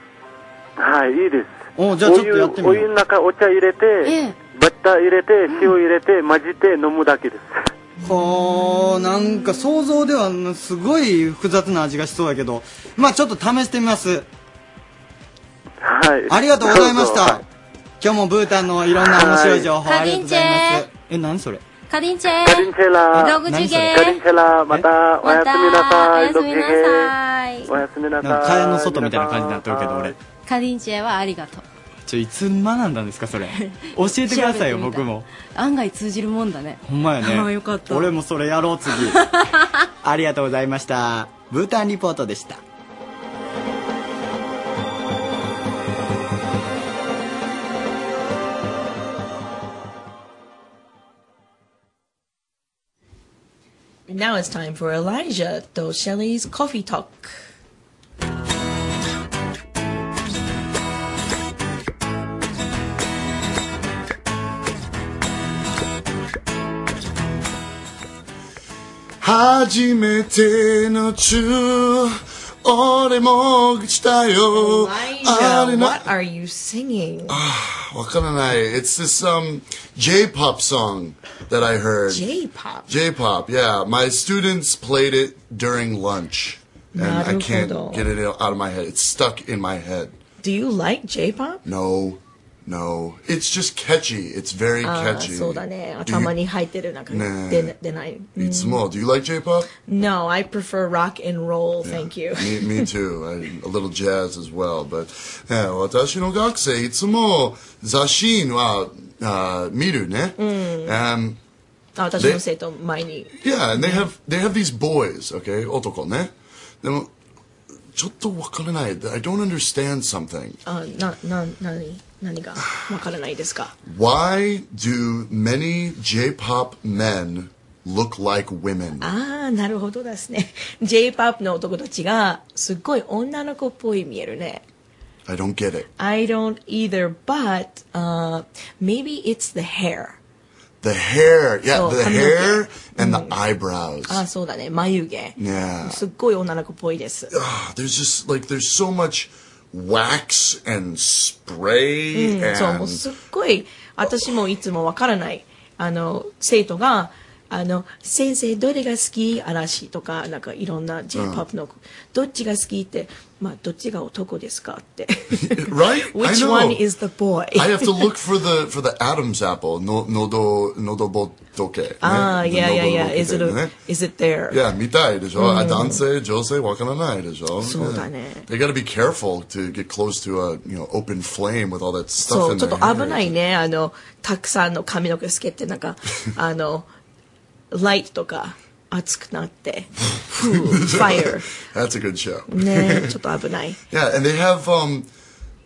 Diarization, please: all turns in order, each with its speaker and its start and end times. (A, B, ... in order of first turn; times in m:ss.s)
0:00.8-0:07.7 A
0:01.8-0:02.9 B
0:04.0-0:04.4 C
0:08.0-0:14.3 B
0:15.8-0:17.4 A
0:16.3-0:17.4 B
0:18.0-0:21.6 B
0:19.0-0:19.7 A
0:19.8-0:20.9 C
0:21.9-0:24.2 C
0:22.4-0:27.1 A
0:23.1-0:24.0 B
0:25.2-0:27.7 C
0:27.7-0:30.1 A
0:28.2-0:30.1 B
0:30.4-0:31.6 C
0:32.0-0:35.3 B
0:33.5-0:38.0 C
0:36.8-0:39.2 B
0:39.0-0:39.4 C
0:40.0-0:42.6 B
0:54.1-0:57.3 D
1:09.2-1:16.0 E
1:14.5-1:17.4 D
1:17.3-1:22.2 E
1:22.1-1:22.9 D
1:22.9-1:30.2 E
1:26.9-1:28.1 D
1:30.4-1:31.6 D
1:31.6-1:36.3 E
1:34.8-1:38.8 D
1:37.1-1:37.7 E
1:38.4-1:39.7 E
1:39.8-1:42.8 D
1:41.8-1:51.4 E
1:50.4-1:51.0 D
1:52.0-1:54.0 D
1:53.4-1:57.1 E
1:57.9-2:00.6 E
2:00.6-2:03.7 D
2:03.8-2:09.1 E
2:09.0-2:14.6 D
2:15.3-2:15.9 E
2:16.0-2:20.2 D
2:20.8-2:24.2 E
2:21.7-2:23.3 D
2:24.1-2:27.3 D
2:25.4-2:26.0 E
2:27.3-2:33.0 E
2:32.1-2:45.4 D
2:41.1-2:41.4 E
2:45.4-2:46.8 E
2:46.1-2:47.9 D
2:47.5-2:53.7 E
2:52.0-2:54.6 D
2:54.5-3:03.3 E
2:55.4-2:56.0 D
2:57.6-2:58.5 D
3:02.2-3:06.9 D
3:07.7-3:11.4 D
3:10.4-3:13.1 E
3:12.5-3:13.8 D
3:13.9-3:15.1 E